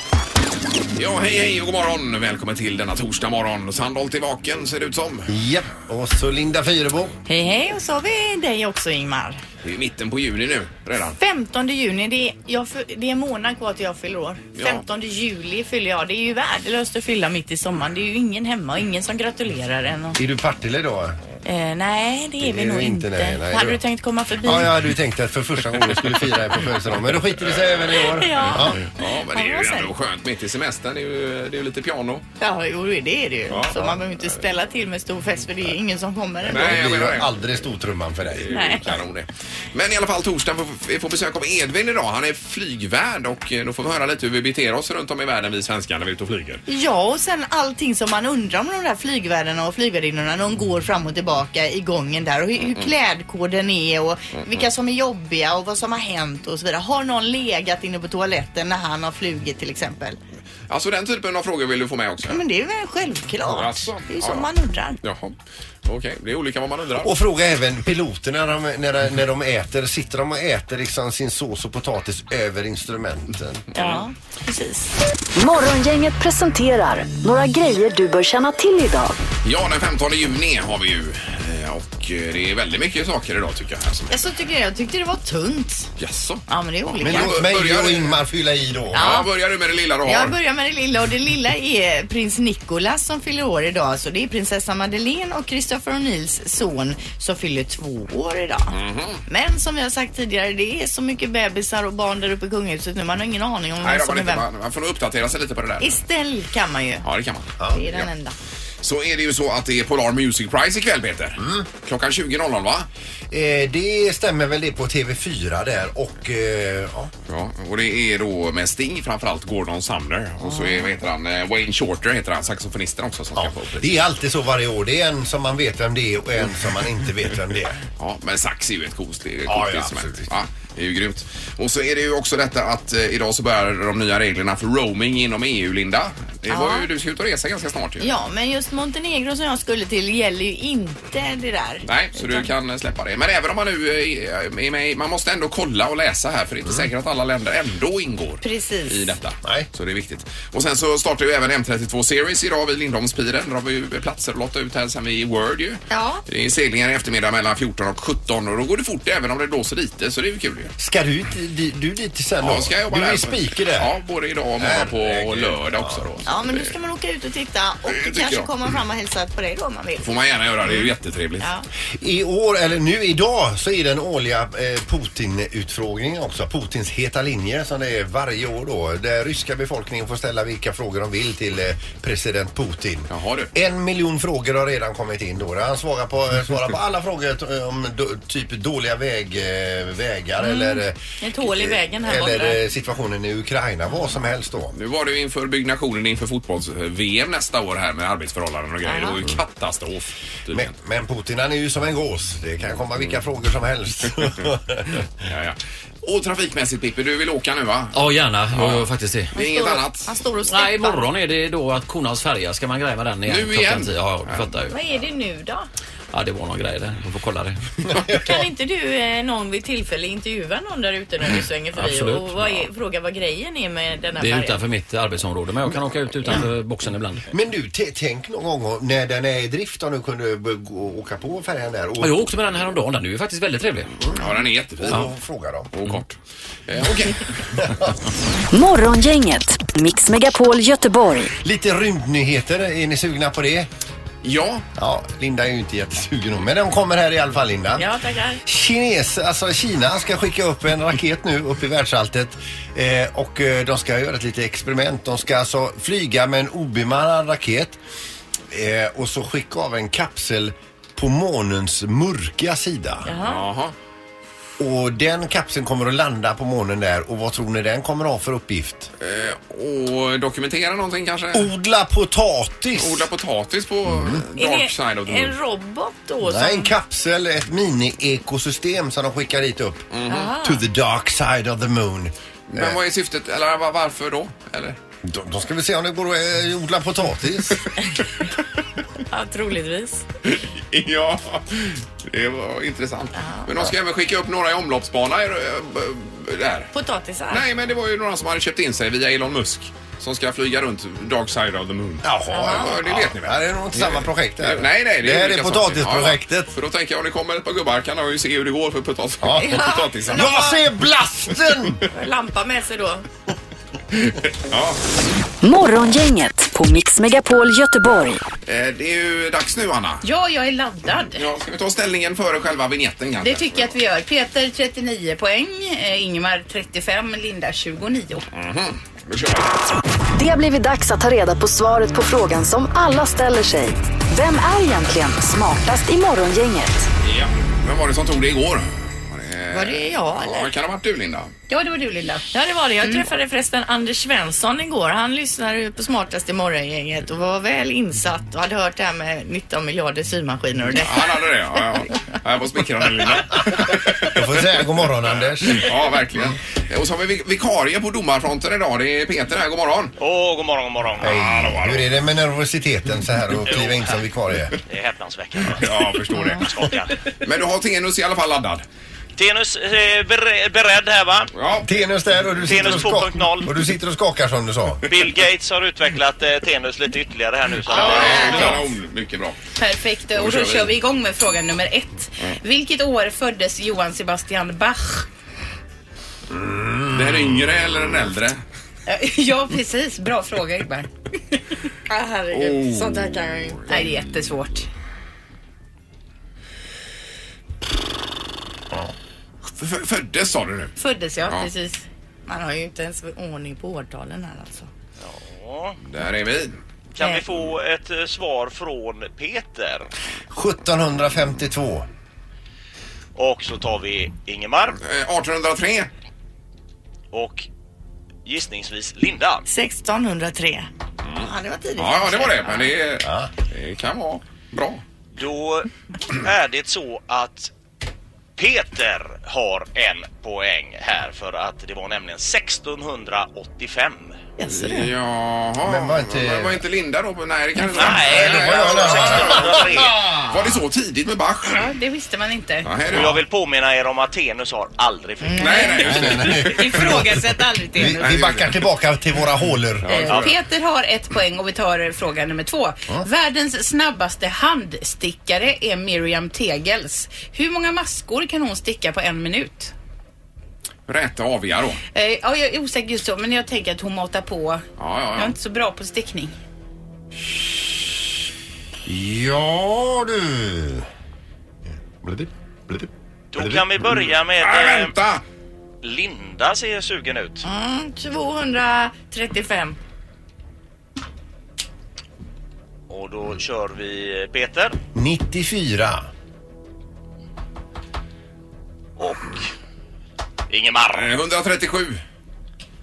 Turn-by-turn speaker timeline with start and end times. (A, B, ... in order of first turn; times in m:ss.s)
0:01.0-0:05.3 A
0:05.3-0:07.2 B
0:07.3-0:09.4 C
0:09.6-0:11.2 A
0:11.2-0:20.2 C
0:14.6-0:14.8 A
0:20.2-0:21.2 B
0:21.4-0:24.7 C
0:22.4-0:23.8 B
0:24.4-0:28.8 B
0:28.1-0:29.9 C
0:28.9-0:32.2 A
0:32.4-0:36.7 C
0:33.5-0:34.0 A
0:36.5-0:37.7 A
0:36.5-0:38.9 B
0:38.3-0:46.6 A
0:38.5-0:39.0 C
0:46.7-1:00.2 C
0:52.6-0:52.9 A
1:00.7-1:02.4 A
1:02.3-1:05.0 C
1:03.5-1:04.5 A
1:05.0-1:07.2 A
1:07.0-1:13.6 B
1:13.7-1:14.0 A
1:13.8-1:14.9 C
1:15.4-1:19.2 D
1:19.4-1:24.2 A
1:24.1-1:25.9 C
1:26.0-1:28.2 A
1:26.5-1:27.4 C
1:27.0-1:29.2 B
1:28.9-1:29.3 C
1:28.9-1:30.4 A
1:30.0-1:44.4 C
1:38.7-1:39.2 A
1:43.8-1:46.0 A
1:45.8-1:47.1 C
1:47.0-1:48.1 A
1:47.7-1:48.4 C
1:48.8-1:52.9 A
1:51.4-1:51.7 B
1:53.3-1:57.1 B
1:57.3-2:04.1 A
2:00.4-2:00.9 C
2:03.4-2:07.8 B
2:08.0-2:18.1 A
2:09.5-2:10.3 B
2:16.5-2:16.9 C
2:18.0-2:22.5 C
2:21.9-2:40.7 A
2:28.4-2:29.1 C
2:35.9-2:36.2 C
2:40.8-2:43.9 B
2:42.4-2:46.7 A
2:44.6-2:46.0 B
2:46.2-2:50.1 C
2:47.9-2:48.5 A
2:50.0-2:51.5 A
2:50.6-2:51.6 C
2:52.0-3:14.8 B
3:03.1-3:03.5 A
3:10.4-3:12.6 C
3:14.7-3:20.7 A
3:18.8-3:19.2 C
3:20.5-3:25.0 B
3:25.2-3:28.0 A
3:27.9-3:29.3 E
3:28.5-3:30.1 A
3:29.4-3:31.1 C
3:30.5-3:34.8 E
3:33.3-3:34.5 A
3:34.7-3:35.7 C
3:36.1-3:37.6 E
3:38.1-3:44.6 C
3:41.8-3:42.7 E
3:44.2-3:47.3 E
3:47.3-3:52.3 B
3:52.0-3:53.9 E
3:54.2-3:55.1 A
3:54.8-3:55.7 B
3:55.7-3:56.2 A
3:56.7-3:57.6 A
3:58.5-4:01.3 D
4:01.4-4:03.7 B
4:04.2-4:04.6 A
4:04.8-4:07.9 B
4:07.8-4:08.4 C
4:08.4-4:17.8 B
4:18.5-4:23.1 B
4:23.0-4:23.4 C
4:23.2-4:23.7 A
4:24.6-4:28.9 B
4:29.0-4:31.5 A
4:31.3-4:33.1 B
4:32.8-4:35.4 A
4:33.8-4:34.2 B
4:34.4-4:36.7 C
4:36.2-4:42.8 B
4:39.9-4:40.3 A
4:40.1-4:40.6 C
4:42.5-4:44.8 A
4:45.0-4:47.7 B
4:49.1-4:50.0 C
4:50.3-4:56.7 A
4:53.2-4:53.6 C
4:56.7-4:57.5 C
4:57.3-5:10.5 A
5:02.0-5:06.5 B
5:02.3-5:02.7 C
5:09.2-5:11.8 B
5:09.4-5:10.6 C
5:11.9-5:13.0 C
5:13.9-5:14.8 A
5:15.4-5:18.2 D
5:18.5-5:20.0 A
5:20.0-5:21.2 F
5:21.2-5:23.8 A
5:23.2-5:28.3 F
5:28.3-5:29.6 A
5:30.2-5:36.9 D
5:37.0-5:41.3 A
5:39.5-5:40.5 C
5:41.5-5:42.3 F
5:42.3-5:51.2 C
5:50.8-5:54.5 A
5:54.0-5:55.7 B
5:55.4-6:00.0 A
6:00.0-6:01.2 G
6:01.0-6:02.0 A
6:01.0-6:04.6 B
6:03.4-6:04.1 G
6:04.7-6:07.0 G
6:05.5-6:06.5 A
6:07.1-6:08.6 A
6:09.2-6:11.3 G
6:11.4-6:11.7 A
6:11.6-6:14.9 B
6:12.4-6:13.5 G
6:12.5-6:12.8 A
6:14.8-6:18.4 G
6:17.6-6:18.7 F
6:17.7-6:19.4 A
6:19.6-6:25.1 F
6:20.1-6:20.8 A
6:26.3-6:27.4 B
6:26.9-6:28.4 A
6:28.9-6:30.9 F
6:31.9-6:33.7 C
6:32.3-6:33.1 A
6:33.7-6:34.7 F
6:39.6-6:41.5 A
6:40.8-6:41.8 F
6:42.3-6:44.7 C
6:45.0-6:45.8 G
6:45.8-6:46.6 A
6:47.0-6:49.9 G
6:50.3-6:51.9 B
6:53.2-6:54.8 G
6:54.8-6:55.9 A
6:57.1-6:57.5 G
6:58.2-6:59.4 G
6:59.5-7:00.7 C
7:01.0-7:04.8 A
7:01.2-7:02.7 C
7:03.0-7:03.3 B
7:05.1-7:07.5 G
7:08.4-7:14.3 G
7:14.4-7:14.9 C
7:14.5-7:21.7 A
7:15.6-7:16.6 B
7:17.7-7:20.0 G
7:17.9-7:20.5 B
7:21.5-7:22.7 F
7:22.6-7:23.2 A
7:22.9-7:25.4 G
7:25.2-7:25.8 C
7:25.4-7:27.0 A
7:25.4-7:28.2 F
7:25.8-7:29.9 B
7:28.0-7:28.6 A
7:29.8-7:30.3 A
7:29.8-7:39.7 F
7:40.9-7:41.8 A
7:41.9-7:46.4 F
7:44.8-7:45.4 A
7:48.9-7:50.9 B
7:52.0-7:53.8 B
7:53.3-7:55.0 G
7:54.4-7:55.2 A
7:55.8-7:57.5 G
7:57.4-7:59.8 C
8:02.9-8:04.8 G
8:04.9-8:06.1 B
8:09.0-8:09.4 G
8:10.5-8:11.2 G
8:10.9-8:12.0 A